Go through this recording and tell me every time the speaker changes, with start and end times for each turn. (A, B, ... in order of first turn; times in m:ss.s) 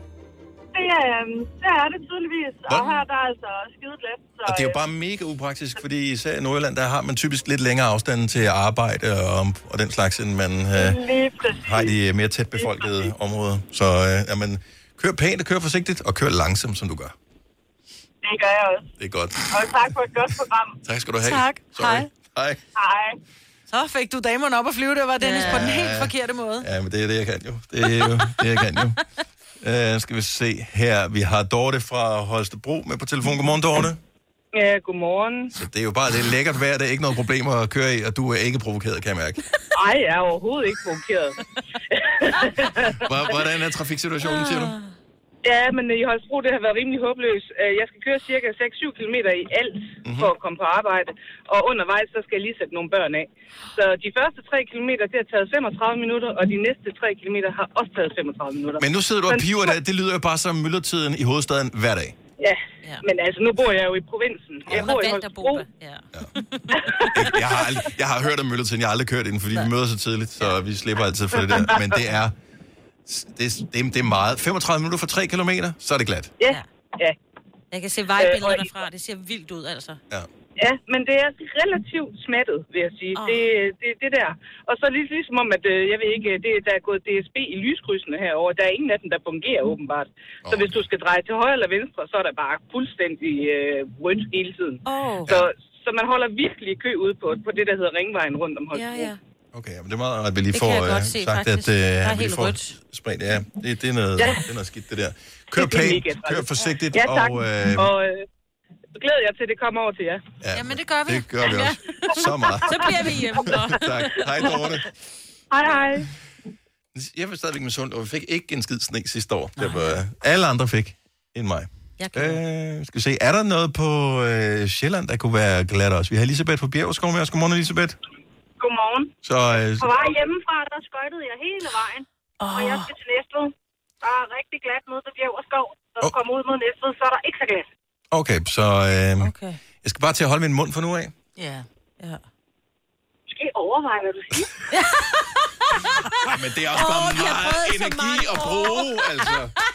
0:00.7-0:04.5 A
0:02.6-0:03.0 B
0:04.4-0:11.1 B
0:10.8-0:11.9 A
0:11.6-0:17.1 B
0:18.3-0:18.8 A
0:19.0-0:19.6 B
0:19.5-0:20.6 A
0:20.8-0:22.6 B
0:21.2-0:22.1 C
0:23.7-0:26.7 C
0:25.2-0:25.7 D
0:25.4-0:29.0 B
0:29.6-0:34.0 B
0:34.5-0:35.5 E
0:35.5-0:39.4 B
0:39.7-0:41.4 E
0:41.9-0:43.0 E
0:42.9-0:44.8 B
0:44.3-0:44.8 D
0:45.4-0:59.7 E
0:50.0-0:50.3 B
0:58.8-1:02.1 B
1:02.4-1:05.6 E
1:04.7-1:05.0 B
1:04.7-1:07.4 D
1:06.8-1:07.4 E
1:07.0-1:12.3 B
1:13.1-1:16.3 B
1:16.4-1:17.2 E
1:17.7-1:20.0 D
1:18.2-1:18.7 E
1:20.6-1:39.1 E
1:23.1-1:23.5 D
1:30.4-1:30.8 B
1:34.8-1:35.3 D
1:38.7-1:39.2 D
1:39.5-1:47.9 B
1:40.5-1:42.8 D
1:45.5-1:48.2 E
1:48.9-1:50.2 E
1:50.4-1:54.9 B
1:50.5-1:51.7 C
1:51.4-1:54.6 D
1:55.6-1:55.9 E
1:56.9-2:08.0 B
1:59.6-2:00.0 D
2:02.0-2:02.4 D
2:08.6-2:09.1 A
2:09.2-2:09.9 B
2:09.8-2:12.0 A
2:12.4-2:12.9 D
2:12.7-2:13.5 A
2:14.0-2:17.6 A
2:18.1-2:21.1 B
2:19.2-2:19.6 D
2:21.4-2:21.6 C
2:23.3-2:24.4 A
2:24.7-2:25.2 D
2:25.8-2:29.3 D
2:26.2-2:29.5 B